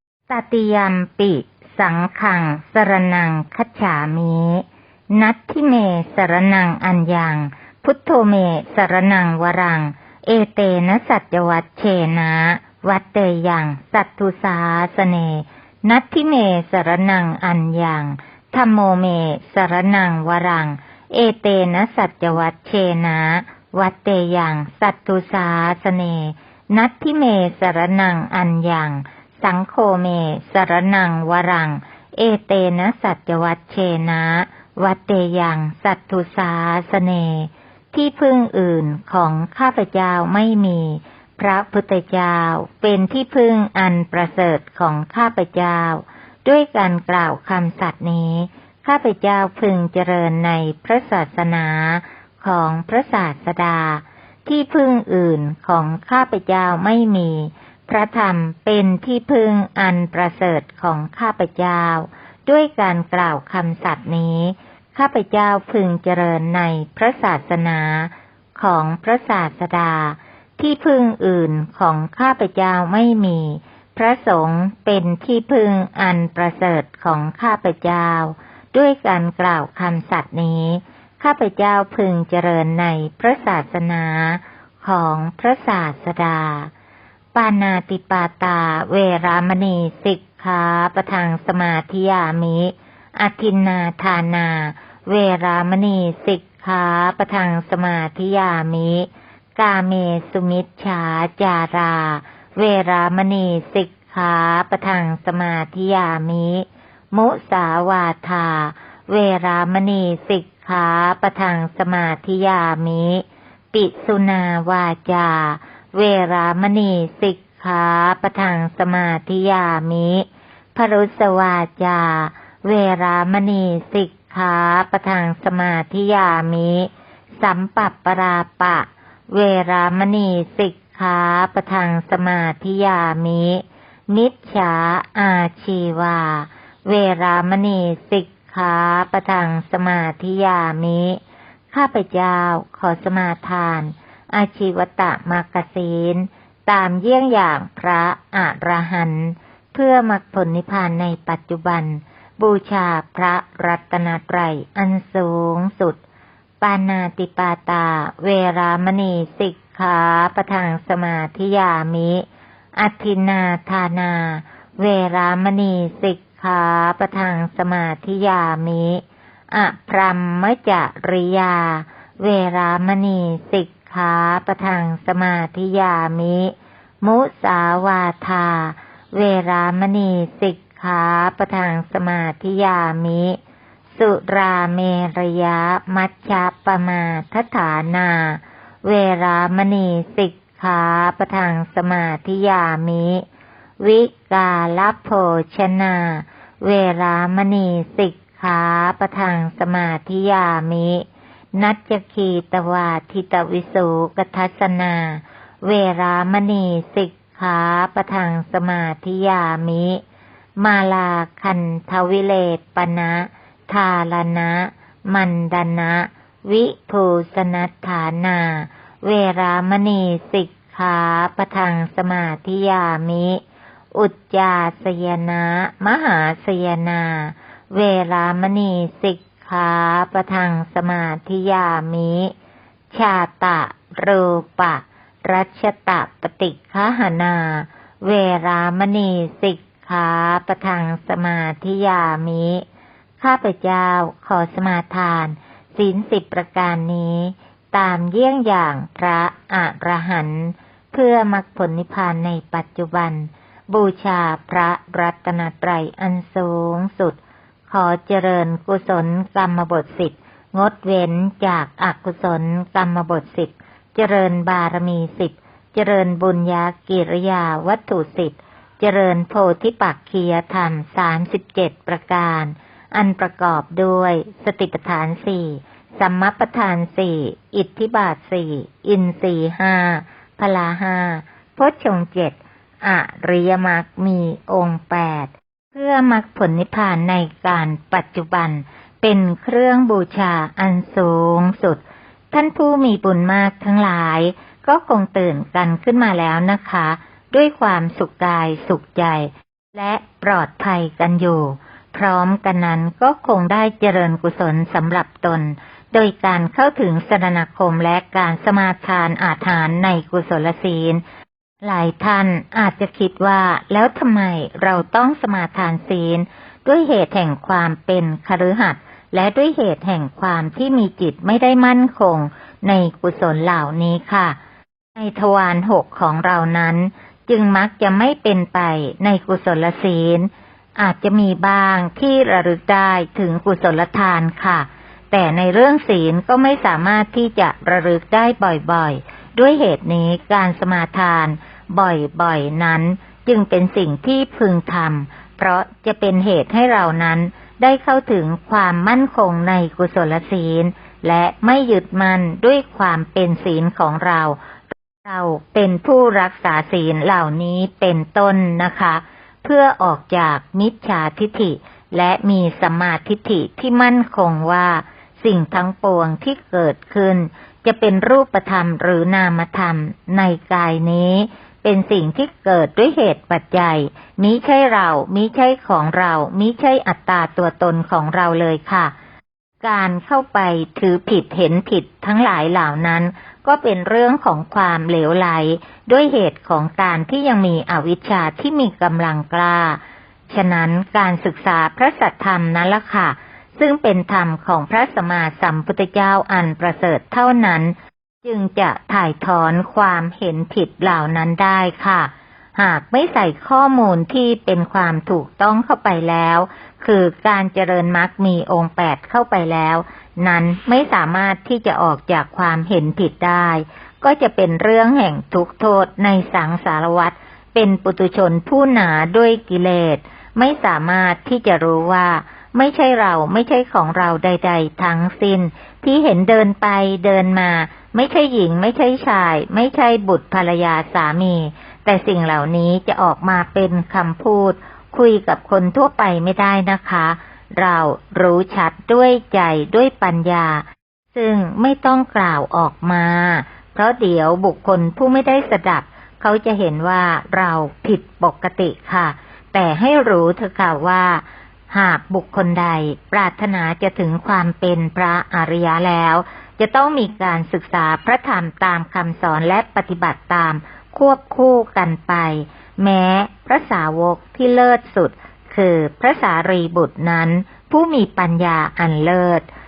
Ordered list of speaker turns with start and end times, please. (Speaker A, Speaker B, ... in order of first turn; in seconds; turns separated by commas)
Speaker A: 0.3-86.7, Speaker A: 87.3-126.9, Speaker A: 127.4-141.2, Speaker A: 141.7-156.0, Speaker A: 156.6-162.2, Speaker A: 162.8-183.4, Speaker A: 183.9-193.2, Speaker A: 193.8-210.0, Speaker A: 210.6-223.4, Speaker A: 223.9-232.3, Speaker A: 232.9-242.6, Speaker A: 243.2-311.0, Speaker A: 311.6-324.4, Speaker A: 324.9-354.4, Speaker A: 355.0-378.9, Speaker A: 379.6-469.5